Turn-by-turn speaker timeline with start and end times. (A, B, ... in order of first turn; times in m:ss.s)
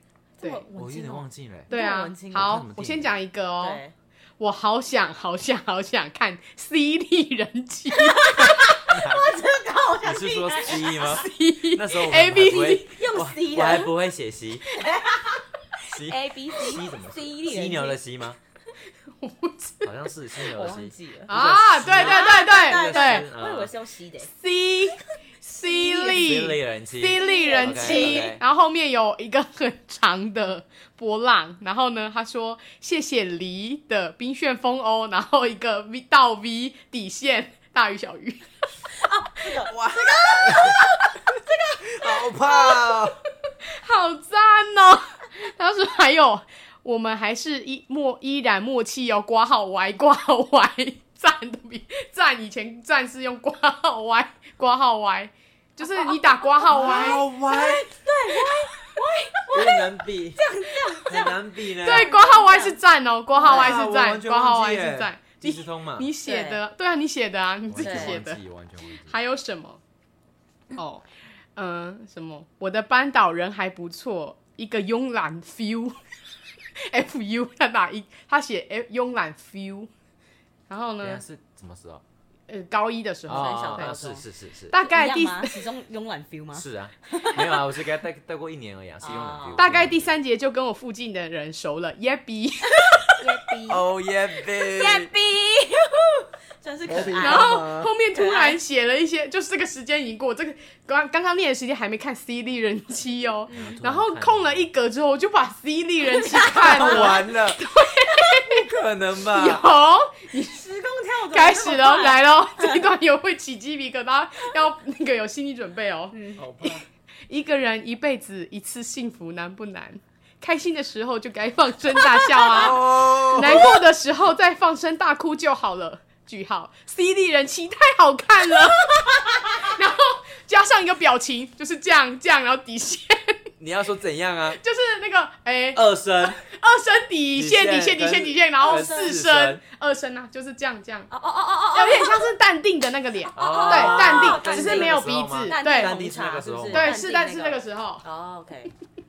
0:00.4-0:02.6 A
0:00.7-0:01.7 B
0:01.7-0:03.8 C
0:02.3-0:03.1 B
0:03.6-0:03.9 A
0:04.4-0:08.8 C
0:08.2-0:11.2 A
0:08.4-0:09.4 B
0:10.0-0:14.7 B
0:10.9-0:13.0 C
0:12.9-0:13.9 A
0:14.7-0:18.0 A
0:15.9-0:18.4 B
0:19.2-0:19.9 C
0:19.8-0:23.7 B
0:20.4-0:21.3 A
0:21.3-0:23.3 C
0:21.8-0:24.3 A
0:24.3-0:38.4 C
0:25.6-0:26.5 A
0:26.0-0:28.4 B
0:27.2-0:28.3 A
0:38.9-0:41.8 A
0:39.7-0:40.8 B
0:41.8-0:43.2 B
0:42.4-0:43.1 C
0:43.8-0:57.3 C
0:55.8-1:02.8 A
0:56.7-0:57.9 B
0:59.5-1:00.4 B
1:01.0-1:02.1 B
1:01.8-1:08.4 C
1:03.4-1:03.8 A
1:03.4-1:06.1 B
1:06.2-1:06.6 A
1:07.7-1:09.2 B
1:07.8-1:08.2 A
1:09.0-1:09.8 C
1:10.7-1:11.0 C
1:11.6-1:16.0 C
1:16.8-1:19.9 C
1:20.7-1:21.2 C
1:21.0-1:22.0 B
1:22.5-1:24.0 C
1:23.3-1:24.7 B
1:23.3-1:24.2 A
1:24.7-1:25.6 C
1:24.8-1:27.6 A
1:26.5-1:30.1 B
1:29.0-1:29.6 A
1:29.6-1:33.2 C
1:33.2-1:33.9 A
1:33.7-1:35.1 B
1:34.5-1:38.6 A
1:36.8-1:37.9 B
1:37.1-1:48.6 C
1:43.5-1:43.8 A
1:43.5-1:44.7 B
1:46.1-1:47.2 A
1:46.6-1:47.6 B
1:48.3-1:49.6 B
1:49.2-1:50.7 C
1:50.4-1:52.8 A
1:51.3-1:56.2 C
1:56.1-1:56.4 A
1:56.4-1:56.8 B
1:57.3-2:13.4 C
2:02.5-2:03.8 B
2:13.6-2:14.6 B
2:14.5-2:21.1 C
2:15.7-2:16.4 B
2:17.3-2:19.6 B
2:18.6-2:19.1 A
2:21.1-2:22.3 A
2:21.7-2:26.0 C
2:23.3-2:28.7 A
2:23.4-2:26.9 B
2:26.7-2:28.0 C